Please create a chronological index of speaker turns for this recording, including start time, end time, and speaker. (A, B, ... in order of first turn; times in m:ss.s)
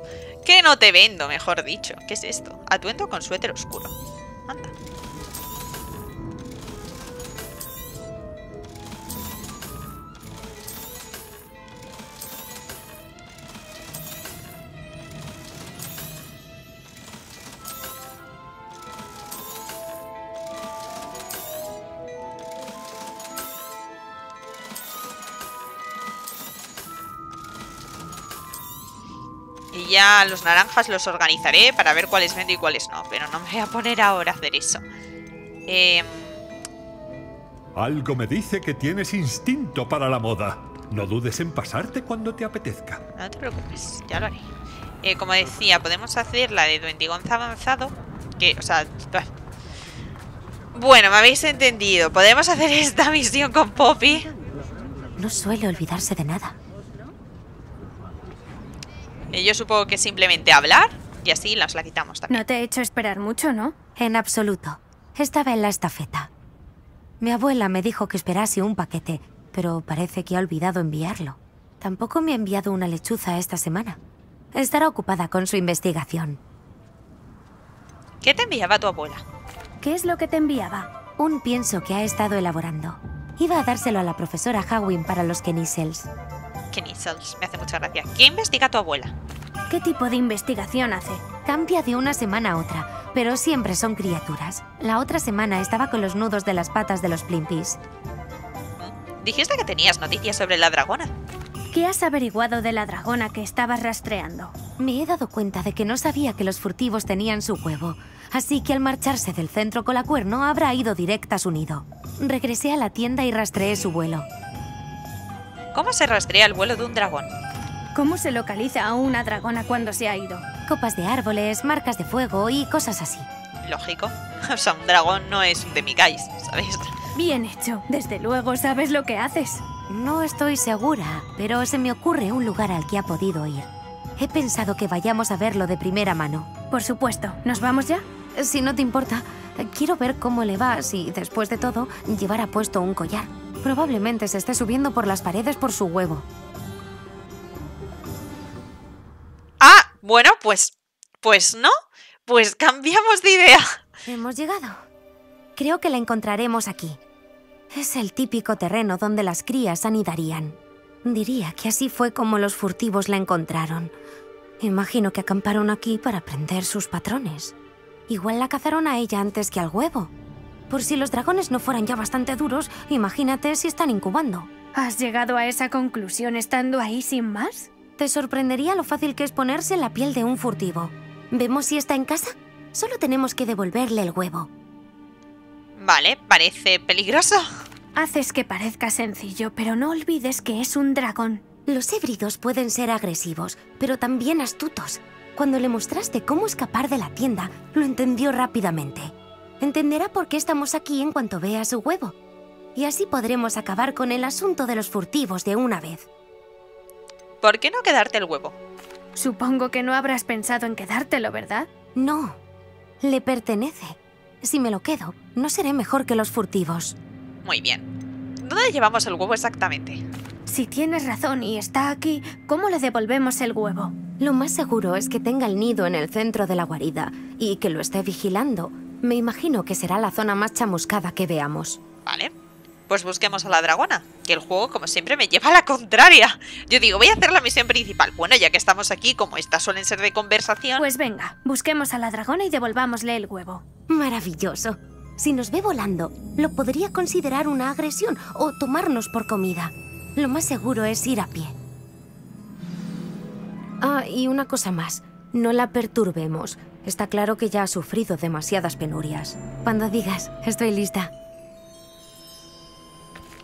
0:00.4-0:03.9 A
0:29.7-0:34.8 A
0:35.7-0:36.4 A
0:37.8-0:43.0 B
0:43.2-0:44.5 A
0:45.0-0:49.3 A
0:50.7-0:54.3 A
0:55.2-0:56.6 C
0:59.3-1:02.4 A
1:02.3-1:03.7 D
1:04.0-1:06.3 C
1:07.2-1:14.0 C
1:14.5-1:16.4 C
1:18.2-1:19.2 A
1:19.8-1:20.9 D
1:21.2-1:26.1 C
1:26.7-1:29.1 A
1:29.7-1:31.2 D
1:31.4-1:37.8 C
1:38.8-1:41.1 A
1:41.7-1:44.5 D
1:44.8-1:54.3 C
1:55.7-1:57.3 A
1:57.9-2:00.4 D
2:00.6-2:03.3 C
2:03.6-2:06.9 A
2:07.1-2:09.6 D
2:09.9-2:16.5 C
2:16.7-2:18.0 D
2:18.3-2:26.3 C
2:29.6-2:31.7 A
2:32.3-2:33.8 A
2:34.0-2:34.8 C
2:35.6-2:37.0 C
2:37.7-2:43.9 C
2:44.6-2:47.5 C
2:48.1-2:50.1 C
2:50.7-2:54.5 C
2:54.8-2:57.7 D
2:58.0-3:04.5 C
3:05.8-3:07.5 A
3:08.0-3:11.4 D
3:11.7-3:22.2 C
3:22.7-3:26.1 C
3:27.4-3:28.6 A
3:29.2-3:31.7 D
3:32.0-3:32.4 C
3:33.0-3:37.0 C
3:37.4-3:37.8 A
3:38.4-3:40.0 A
3:40.5-3:43.9 D
3:44.2-3:51.8 C
3:52.0-3:52.3 A
3:52.9-4:00.8 A
4:00.8-4:03.6 D
4:03.9-4:11.5 C
4:13.8-4:21.1 C